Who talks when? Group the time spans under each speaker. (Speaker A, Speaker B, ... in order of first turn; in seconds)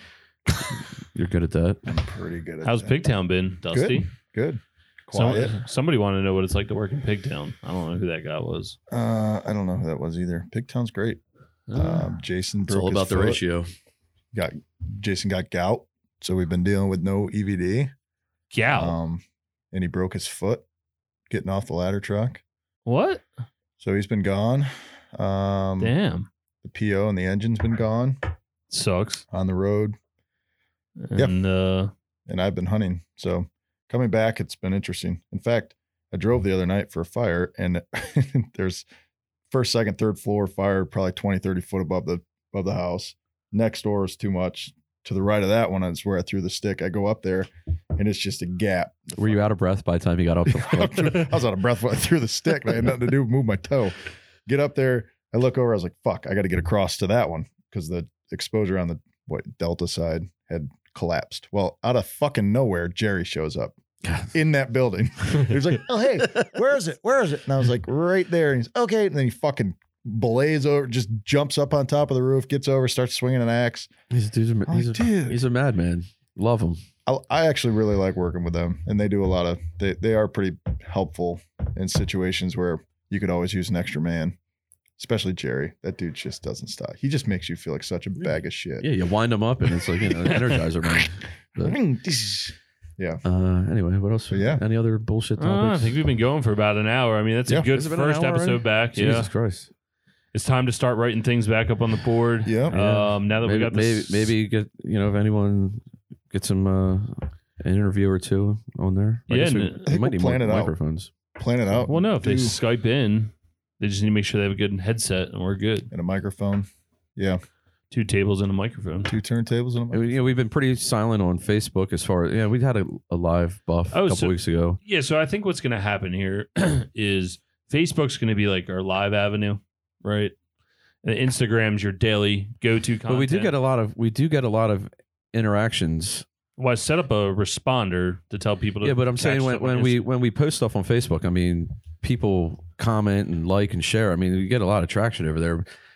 Speaker A: 0.7-1.8, 12.7-13.7, 49.2-51.4, 64.0-64.3, 74.1-76.8, 88.8-91.8, 93.2-95.9, 97.7-99.7, 102.7-111.1, 119.9-124.8, 133.1-136.2, 138.8-145.7
Speaker B: 1.9-3.0, 3.7-5.5, 8.9-11.2, 11.7-13.4, 14.3-17.9, 18.7-20.6, 21.3-22.4, 23.8-25.9, 26.6-28.2, 29.3-30.0, 32.3-38.8, 39.5-49.5, 50.4-53.9, 54.5-63.8, 64.3-73.9, 74.7-75.4, 77.0-84.4, 85.0-88.9, 91.6-93.2, 94.3-94.6, 102.4-102.7, 109.8-110.7, 111.3-112.6, 115.9-117.4, 119.0-120.2
Speaker C: 2.6-4.1, 5.1-8.8, 11.7-12.1, 18.5-19.0, 22.9-23.2, 25.8-26.3, 28.7-29.2, 31.0-31.9, 95.4-99.3, 100.3-104.3, 109.3-109.9, 111.9-115.9, 117.9-119.1, 123.9-130.3, 131.0-133.5, 136.6-140.0